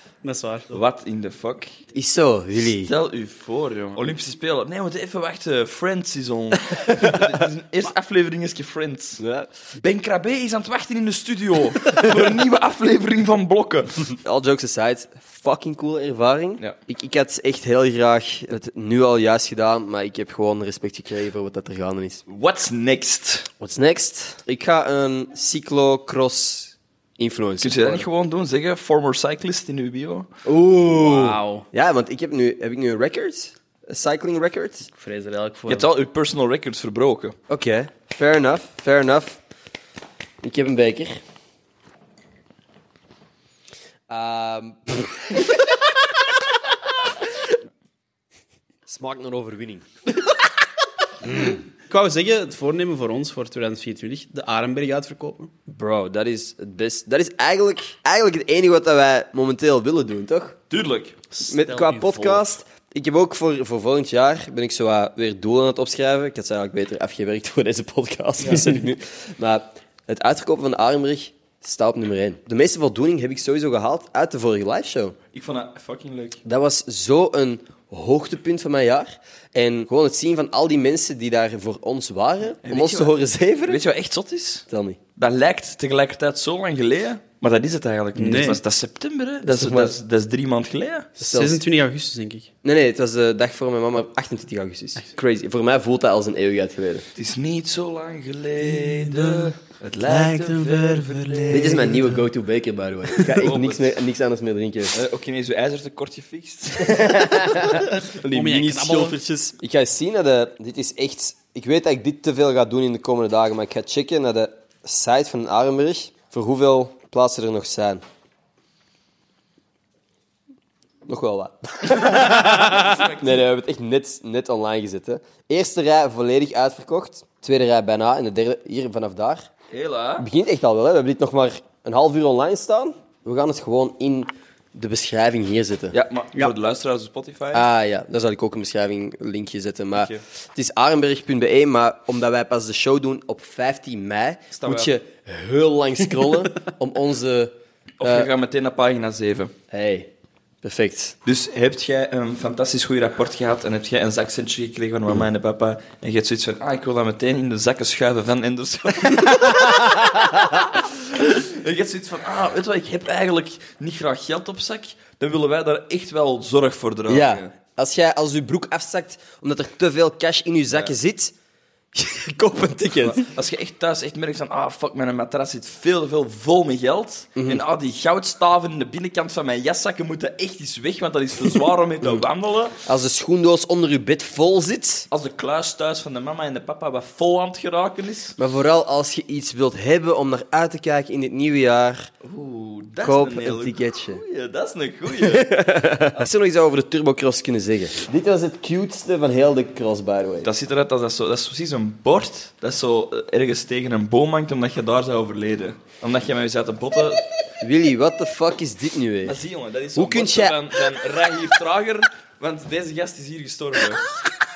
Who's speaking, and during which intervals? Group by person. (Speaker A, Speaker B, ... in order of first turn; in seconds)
Speaker A: 0.2-0.7, 30.9-31.7, 35.0-35.9, 51.3-55.5, 61.3-62.5, 88.2-88.6, 91.2-92.5, 98.6-102.2, 107.7-109.2
Speaker B: 0.7-1.7, 2.7-9.2, 9.8-14.1, 22.3-23.5, 27.6-30.3, 35.7-37.4, 60.7-61.2, 75.3-76.4, 82.6-84.7, 85.2-91.1, 97.2-101.9, 103.2-104.0, 104.9-107.4, 121.9-123.5, 129.7-130.3, 135.9-137.7, 139.9-140.2, 144.5-144.9, 148.0-149.5, 151.2-167.5, 173.0-182.8, 185.1-188.4, 192.2-196.2, 200.4-207.2, 209.2-214.0
Speaker C: 1.9-2.9, 9.2-9.5, 14.2-22.2, 23.6-28.1, 30.4-34.9, 37.5-39.4, 40.4-41.2, 44.1-45.6, 48.9-49.9, 55.7-60.6, 61.5-75.2, 76.5-83.8, 84.7-85.0, 89.4-90.0, 91.2-91.6, 92.6-97.1, 101.5-105.0, 106.8-118.0, 121.1-129.5, 130.2-136.0, 137.5-148.3, 149.7-150.1, 150.6-151.2, 159.2-160.7, 167.1-171.3, 171.9-173.3, 177.4-177.6, 182.8-185.1, 188.4-192.1, 193.0-194.2, 195.2-200.5, 207.6-209.4, 209.9-210.6